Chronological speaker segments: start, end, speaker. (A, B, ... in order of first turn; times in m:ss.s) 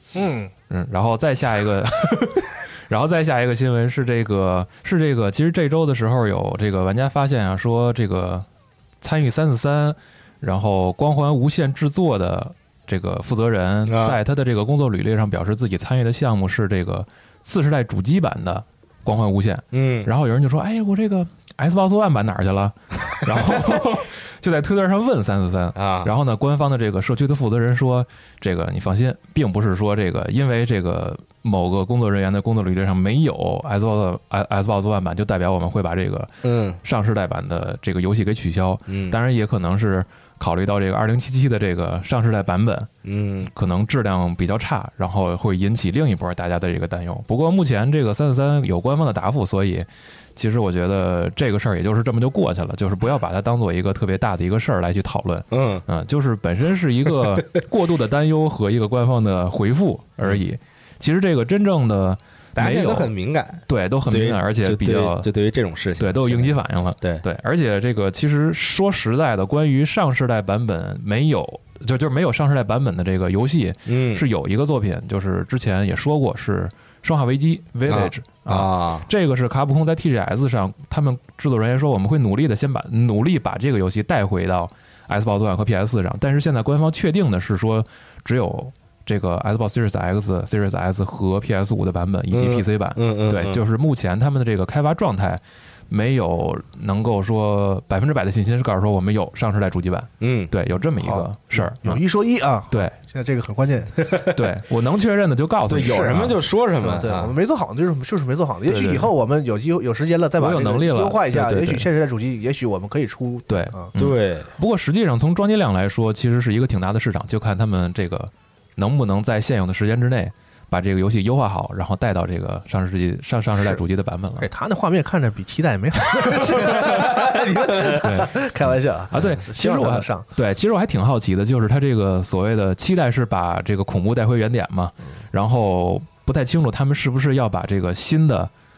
0:00.1-0:00.5 A
0:00.7-0:08.4 B
0:09.0-0:42.9 B
0:13.8-0:14.2 C
0:19.7-0:20.1 C
0:25.7-0:26.1 C
0:36.4-0:36.8 C
0:38.9-0:39.2 C
0:43.0-0:43.5 C
0:43.5-1:03.1 B
0:55.5-0:55.8 C
1:02.5-1:07.2 C
1:03.7-1:05.3 B
1:06.0-1:42.0 B
1:13.8-1:14.2 C
1:17.9-1:19.1 C
1:32.3-1:33.6 C
1:40.2-1:40.5 C
1:41.0-1:44.1 A
1:42.7-1:43.0 B
1:44.2-1:46.4 B
1:45.7-1:47.3 C
1:45.7-1:46.2 A
1:46.8-1:53.9 A
1:48.7-1:49.1 B
1:50.4-1:51.9 B
1:53.5-2:04.5 B
1:54.0-1:54.5 C
2:04.4-2:10.2 A
2:06.6-2:08.1 C
2:07.9-2:08.4 B
2:09.1-2:18.5 B